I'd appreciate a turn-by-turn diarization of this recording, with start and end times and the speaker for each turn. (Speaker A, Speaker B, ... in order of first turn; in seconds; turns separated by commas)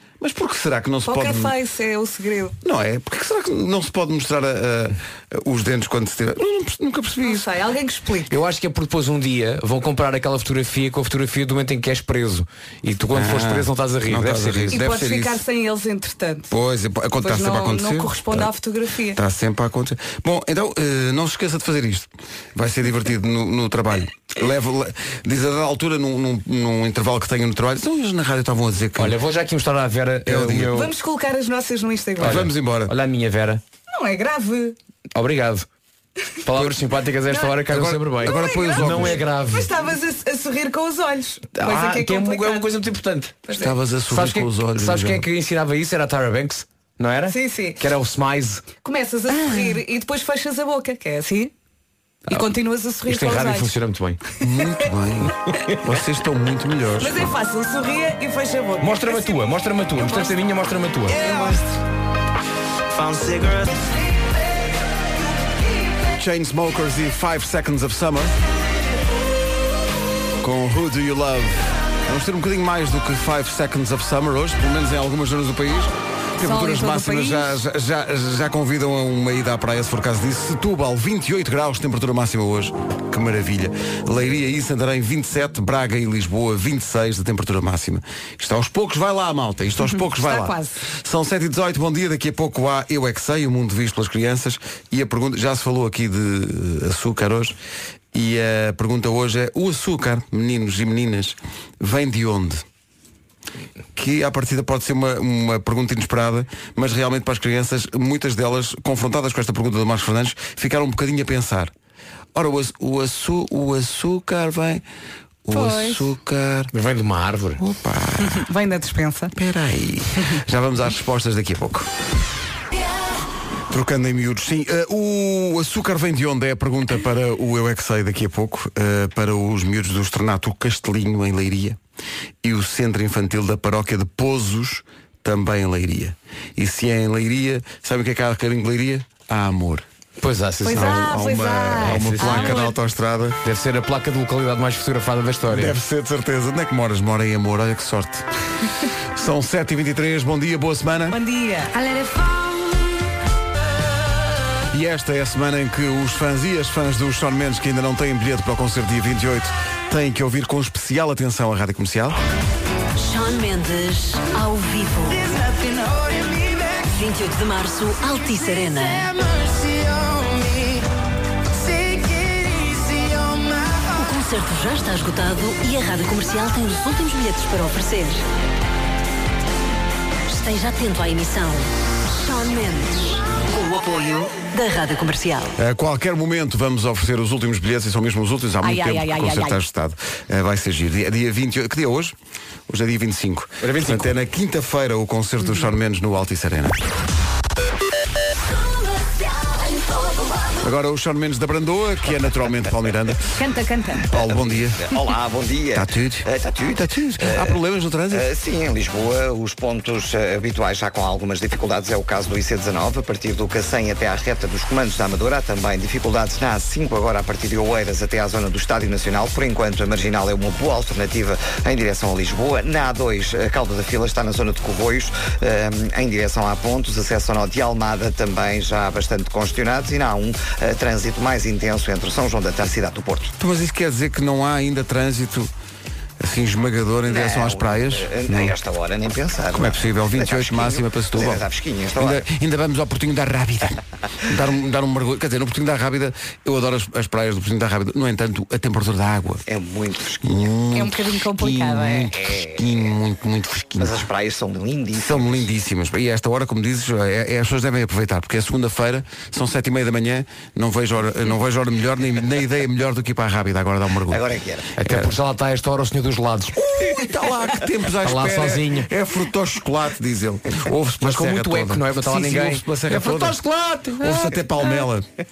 Speaker A: 0.2-1.5, Speaker B: 1.1-2.5, Speaker A: 2.6-7.5, Speaker B: 7.2-8.3, Speaker C: 8.3-14.8, Speaker A: 13.1-15.4, Speaker B: 14.7-16.5, Speaker A: 16.5-18.5, Speaker B: 17.2-19.2, Speaker A: 19.1-29.2, Speaker C: 29.0-30.9, Speaker A: 30.2-30.7, Speaker B: 30.7-32.5, Speaker A: 32.2-32.9, Speaker C: 32.2-33.6, Speaker B: 33.9-34.8, Speaker C: 35.1-35.6, Speaker C: 36.4-39.7, Speaker B: 37.3-37.6, Speaker A: 37.7-39.2, Speaker B: 38.2-42.7, Speaker C: 41.5-43.4, Speaker B: 43.5-43.7, Speaker A: 43.5-45.2, Speaker C: 44.1-48.7, Speaker B: 47.3-47.8, Speaker B: 48.8-51.5, Speaker B: 52.3-53.7, Speaker C: 53.1-54.2, Speaker A: 54.4-57.3, Speaker B: 57.0-60.4, Speaker C: 58.8-61.2, Speaker B: 61.1-61.6, Speaker A: 61.2-61.6, Speaker A: 66.2-68.3, Speaker A: 70.4-97.5, Speaker B: 76.4-77.6, Speaker B: 89.8-90.8, Speaker A: 98.1-102.6, Speaker A: 104.0-111.7, Speaker A: 112.3-114.8, Speaker A: 115.4-116.7, Speaker B: 115.5-116.1, Speaker C: 116.7-117.6, Speaker A: 117.6-118.5, Speaker B: 118.2-119.3, Speaker A: 119.3-121.9, Speaker A: 123.7-131.8, Speaker A: 132.4-139.8, Speaker C: 140.2-141.1, Speaker B: 140.6-142.7, Speaker A: 140.7-143.4, Speaker C: 141.8-142.6, Speaker C: 143.4-145.7, Speaker A: 145.5-148.2, Speaker A: 149.1-151.2, Speaker B: 151.1-152.6, Speaker A: 154.7-162.2, Speaker D: 163.0-165.5, Speaker D: 166.8-169.2, Speaker D: 173.9-178.2, Speaker D: 180.3-185.5, Speaker A: 185.6-192.1, Speaker B: 188.6-189.6, Speaker A: 192.7-196.8, Speaker C: 193.6-194.1, Speaker A: 200.6-203.4, Speaker B: 203.4-204.1, Speaker A: 204.1-204.8, Speaker E: 204.9-207.6, Speaker A: 205.7-208.3, Speaker E: 208.1-233.3, Speaker A: 233.4-235.5, Speaker A: 236.2-238.5, Speaker E: 237.1-242.2, Speaker A: 239.5-241.4, Speaker A: 242.0-249.4, Speaker E: 249.5-250.4, Speaker A: 250.2-254.1, Speaker B: 250.7-252.1, Speaker E: 252.2-252.5, Speaker E: 253.8-255.5, Speaker A: 254.9-264.2, Speaker E: 264.1-264.7, Speaker C: 264.8-266.6, Speaker A: 264.8-265.1, Speaker A: 266.5-273.4, Speaker C: 268.0-268.9, Speaker C: 271.0-274.4, Speaker A: 274.0-275.1